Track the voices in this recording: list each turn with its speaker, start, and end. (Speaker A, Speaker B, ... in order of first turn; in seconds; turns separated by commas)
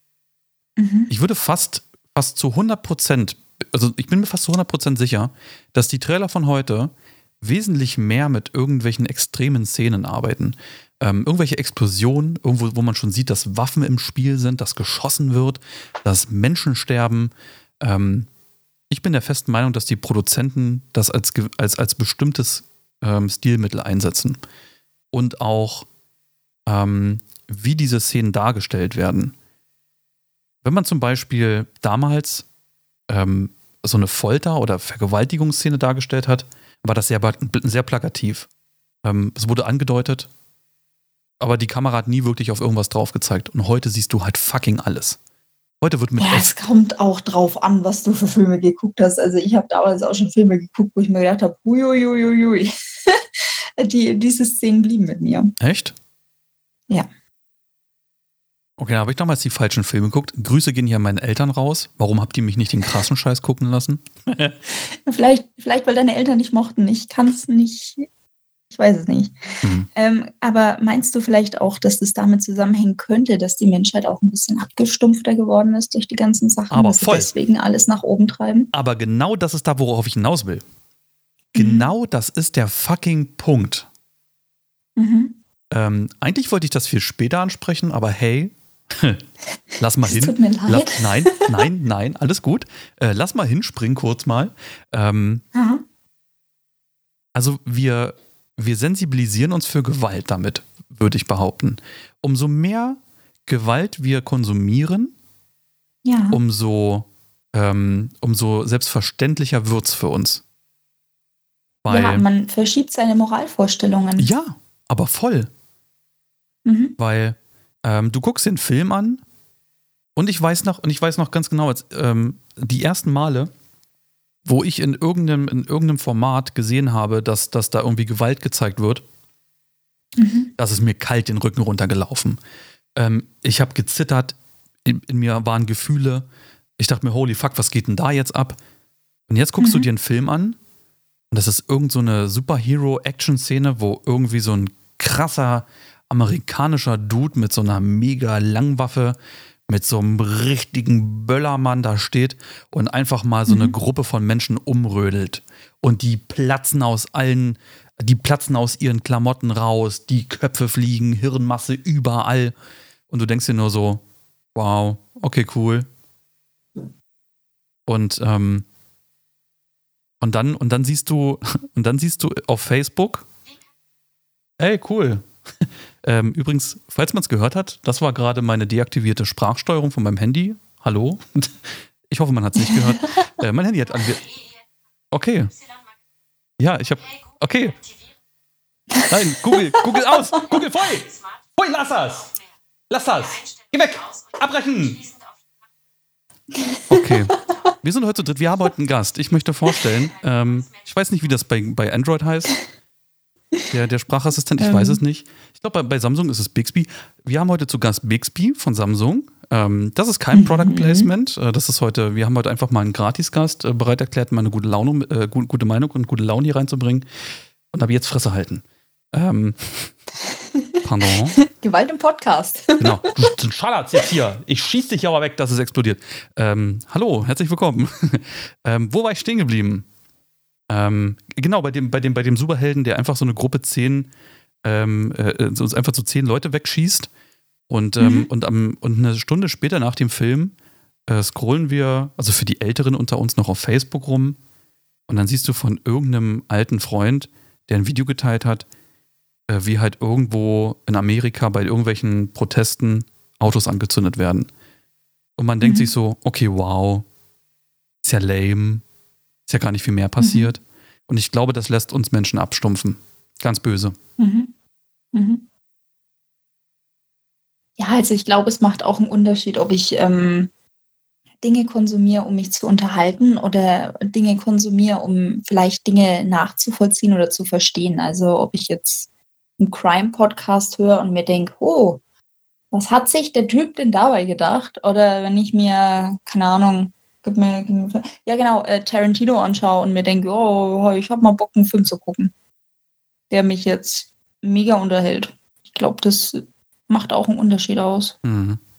Speaker A: 0.8-1.1, Speaker B: 1.1-18.3, Speaker B: 18.9-24.4, Speaker B: 25.1-25.9, Speaker B: 26.7-29.3, Speaker B: 30.6-32.5, Speaker B: 33.1-38.5, Speaker B: 39.0-40.3, Speaker B: 41.4-45.2, Speaker B: 45.8-46.5, Speaker A: 46.2-55.5, Speaker B: 55.6-55.9, Speaker B: 58.8-64.6, Speaker A: 65.1-68.1, Speaker A: 68.7-69.3, Speaker B: 69.6-69.9, Speaker A: 69.9-78.7, Speaker B: 76.7-77.3, Speaker B: 78.7-80.6, Speaker A: 81.5-81.8, Speaker B: 81.6-83.9, Speaker A: 85.0-85.4, Speaker B: 85.7-89.2, Speaker B: 89.8-95.4, Speaker A: 90.0-91.5, Speaker A: 95.5-95.8, Speaker B: 97.3-105.1, Speaker A: 106.0-106.4, Speaker B: 106.3-110.4, Speaker B: 111.8-112.2, Speaker A: 111.9-114.3, Speaker B: 114.2-115.5, Speaker A: 116.7-117.0, Speaker B: 117.0-119.2, Speaker B: 120.2-123.5, Speaker B: 124.4-129.0, Speaker A: 130.2-130.5, Speaker B: 130.6-132.4, Speaker B: 132.9-136.3, Speaker B: 136.8-138.6, Speaker B: 139.3-140.6, Speaker A: 139.6-139.9, Speaker B: 141.3-149.2, Speaker B: 149.7-162.5, Speaker A: 153.5-153.8, Speaker B: 163.1-164.0, Speaker B: 164.6-165.9, Speaker B: 167.9-168.7, Speaker B: 170.2-173.3, Speaker B: 174.6-184.3, Speaker A: 182.6-183.1, Speaker B: 185.1-185.6, Speaker B: 186.6-187.8, Speaker A: 188.9-189.8, Speaker B: 189.1-192.3, Speaker B: 192.9-195.1, Speaker A: 196.5-197.3, Speaker B: 196.9-202.6, Speaker B: 203.7-217.1, Speaker A: 204.6-205.0, Speaker A: 210.3-211.1, Speaker B: 217.7-219.9, Speaker A: 220.3-220.8, Speaker B: 220.8-221.4, Speaker A: 221.4-223.2, Speaker B: 222.8-229.8, Speaker B: 230.7-234.1, Speaker B: 234.6-237.1, Speaker B: 237.7-240.5, Speaker A: 238.0-238.3, Speaker B: 241.1-244.4, Speaker B: 245.1-248.7, Speaker B: 249.5-254.5, Speaker B: 255.4-257.1, Speaker A: 255.6-255.9, Speaker B: 258.0-258.8, Speaker B: 259.5-263.9, Speaker A: 260.2-260.5, Speaker A: 264.2-264.5, Speaker A: 265.1-265.4, Speaker A: 267.8-270.5, Speaker A: 271.4-279.1, Speaker A: 279.6-282.0, Speaker A: 282.7-292.3, Speaker A: 293.3-298.2, Speaker B: 298.2-298.6